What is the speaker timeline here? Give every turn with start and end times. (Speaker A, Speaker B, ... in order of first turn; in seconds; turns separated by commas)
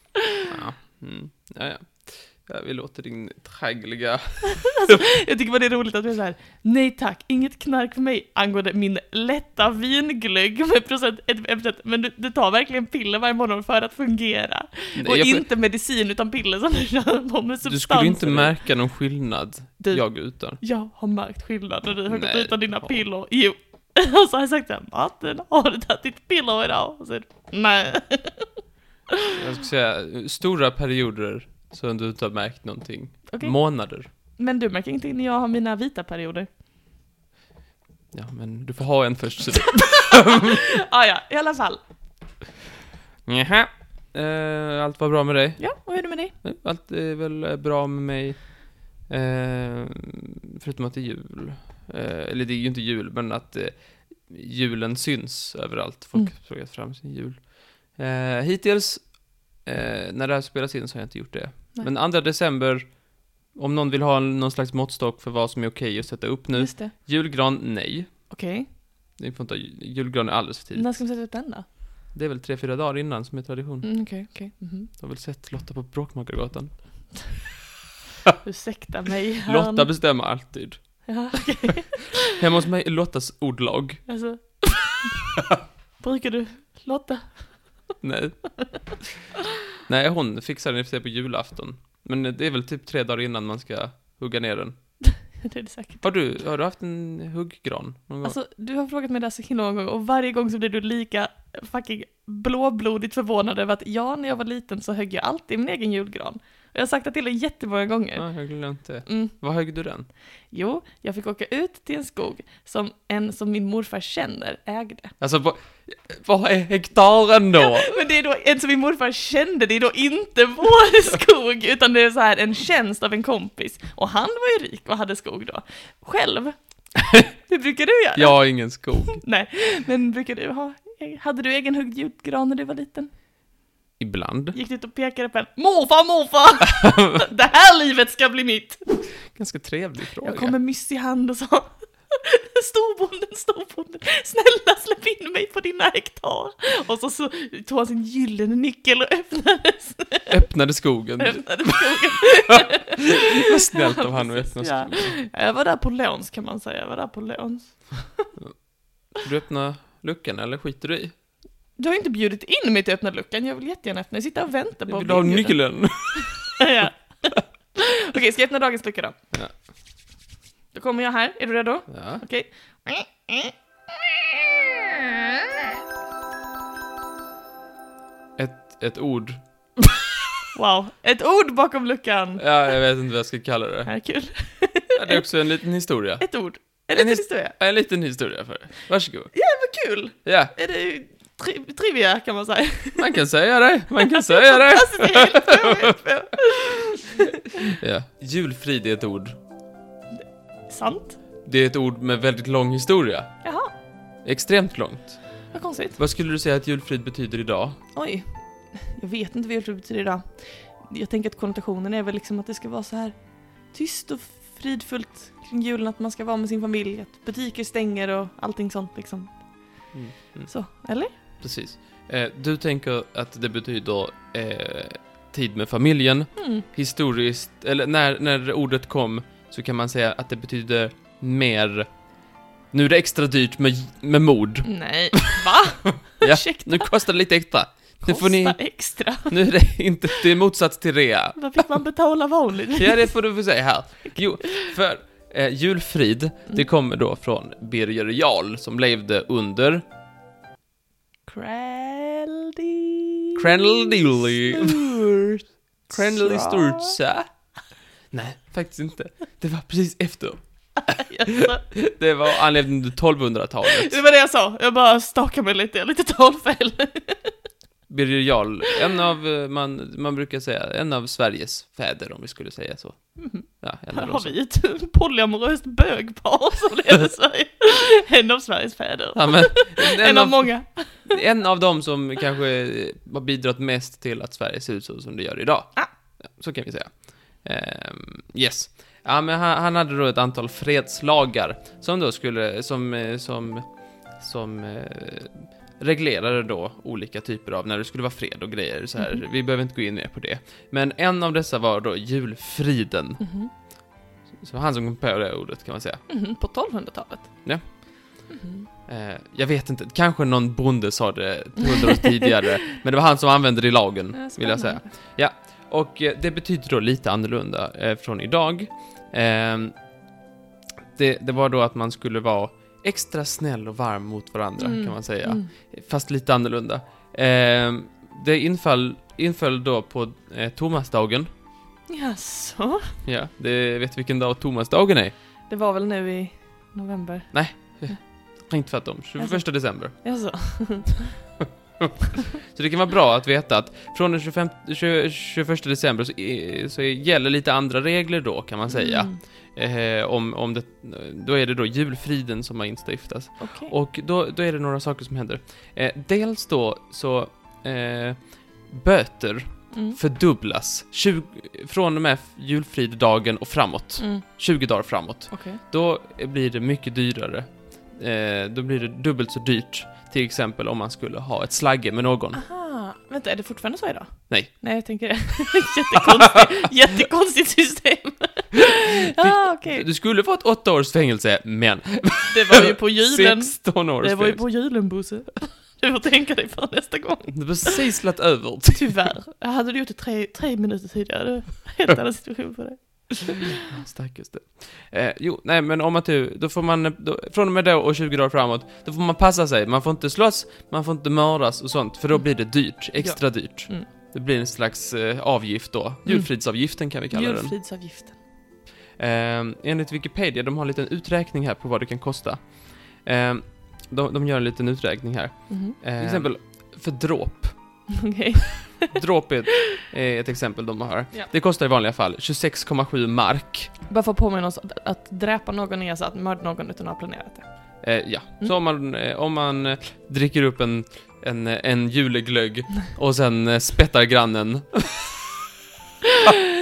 Speaker A: 0.1-0.5, Speaker B: 0.5-5.0, Speaker A: 4.4-18.6, Speaker B: 14.9-15.5, Speaker B: 17.6-20.6, Speaker A: 19.8-28.5, Speaker B: 22.1-23.0, Speaker B: 29.3-34.1, Speaker A: 33.3-33.6, Speaker A: 34.2-36.5, Speaker B: 38.1-40.6, Speaker A: 39.8-41.8, Speaker B: 43.3-45.6, Speaker A: 45.6-46.4, Speaker B: 46.4-68.2, Speaker A: 66.5-66.9, Speaker A: 68.3-68.7, Speaker B: 69.2-71.0, Speaker A: 70.7-71.7, Speaker B: 72.1-73.9, Speaker A: 73.8-74.9, Speaker B: 75.0-77.4, Speaker A: 78.4-80.0, Speaker B: 79.5-81.4, Speaker A: 81.0-82.3, Speaker B: 82.3-84.1, Speaker A: 84.1-85.3, Speaker A: 86.0-87.9, Speaker B: 88.0-88.5, Speaker B: 89.8-95.0, Speaker A: 95.1-96.0, Speaker B: 96.0-98.4, Speaker A: 98.2-108.5, Speaker B: 108.1-110.1, Speaker A: 109.0-109.3, Speaker A: 110.5-115.1, Speaker B: 115.2-117.9, Speaker A: 117.6-126.6, Speaker A: 127.2-133.1, Speaker B: 128.1-129.2, Speaker B: 134.0-134.6, Speaker A: 134.5-139.0, Speaker B: 139.3-140.6, Speaker A: 140.2-150.4, Speaker B: 150.3-152.1, Speaker A: 151.2-158.3, Speaker B: 152.6-155.2, Speaker B: 158.4-161.1, Speaker A: 161.8-165.8, Speaker B: 164.9-166.6, Speaker A: 166.2-167.2, Speaker A: 167.8-169.2, Speaker A: 170.7-173.5, Speaker B: 171.9-172.2, Speaker A: 174.1-175.6, Speaker B: 178.4-179.4, Speaker A: 180.5-182.7, Speaker B: 182.4-183.9, Speaker A: 183.9-185.2, Speaker B: 184.9-186.2, Speaker A: 186.2-187.6, Speaker B: 186.9-189.3, Speaker A: 189.3-193.1, Speaker B: 190.2-190.5, Speaker B: 192.9-195.9, Speaker A: 193.9-197.5, Speaker B: 197.6-199.4, Speaker A: 200.7-201.2, Speaker B: 201.4-203.3, Speaker A: 203.4-203.7, Speaker B: 204.2-205.4, Speaker A: 205.5-206.0, Speaker B: 206.0-207.8, Speaker A: 207.9-219.9, Speaker B: 219.9-220.5, Speaker A: 220.5-221.1, Speaker B: 221.4-232.1, Speaker A: 226.4-226.6, Speaker B: 232.7-235.4, Speaker A: 234.6-236.9, Speaker B: 236.2-241.8, Speaker A: 238.0-239.3, Speaker A: 241.4-243.1, Speaker B: 242.8-249.8, Speaker A: 244.1-244.5, Speaker A: 251.3-255.1, Speaker B: 253.4-257.3, Speaker A: 255.9-257.0, Speaker B: 258.1-264.0, Speaker A: 260.8-261.6, Speaker A: 263.6-267.4, Speaker B: 267.9-274.4, Speaker A: 273.2-281.2, Speaker B: 279.1-303.2, Speaker A: 303.2-303.5, Speaker B: 304.3-306.0, Speaker A: 306.1-307.8, Speaker B: 307.4-308.0, Speaker A: 308.3-308.7, Speaker B: 308.9-319.8, Speaker A: 311.9-312.3, Speaker A: 314.1-314.9, Speaker B: 321.0-331.3, Speaker A: 324.6-325.5, Speaker A: 331.9-333.0, Speaker B: 333.0-335.1, Speaker A: 335.5-338.0, Speaker B: 337.3-340.0, Speaker A: 339.2-341.2, Speaker B: 341.8-372.4, Speaker A: 348.7-349.2, Speaker A: 353.4-353.7, Speaker A: 359.7-360.0, Speaker A: 364.0-364.2, Speaker A: 365.3-365.6, Speaker A: 372.3-379.9, Speaker B: 379.1-384.5, Speaker A: 382.3-387.9, Speaker B: 387.3-389.0, Speaker A: 388.7-393.6, Speaker B: 393.6-407.5, Speaker A: 402.2-403.9, Speaker A: 406.1-408.2, Speaker B: 409.0-417.9, Speaker A: 415.5-416.3, Speaker A: 417.9-419.0, Speaker B: 418.9-423.7, Speaker A: 423.9-427.9, Speaker B: 427.8-435.3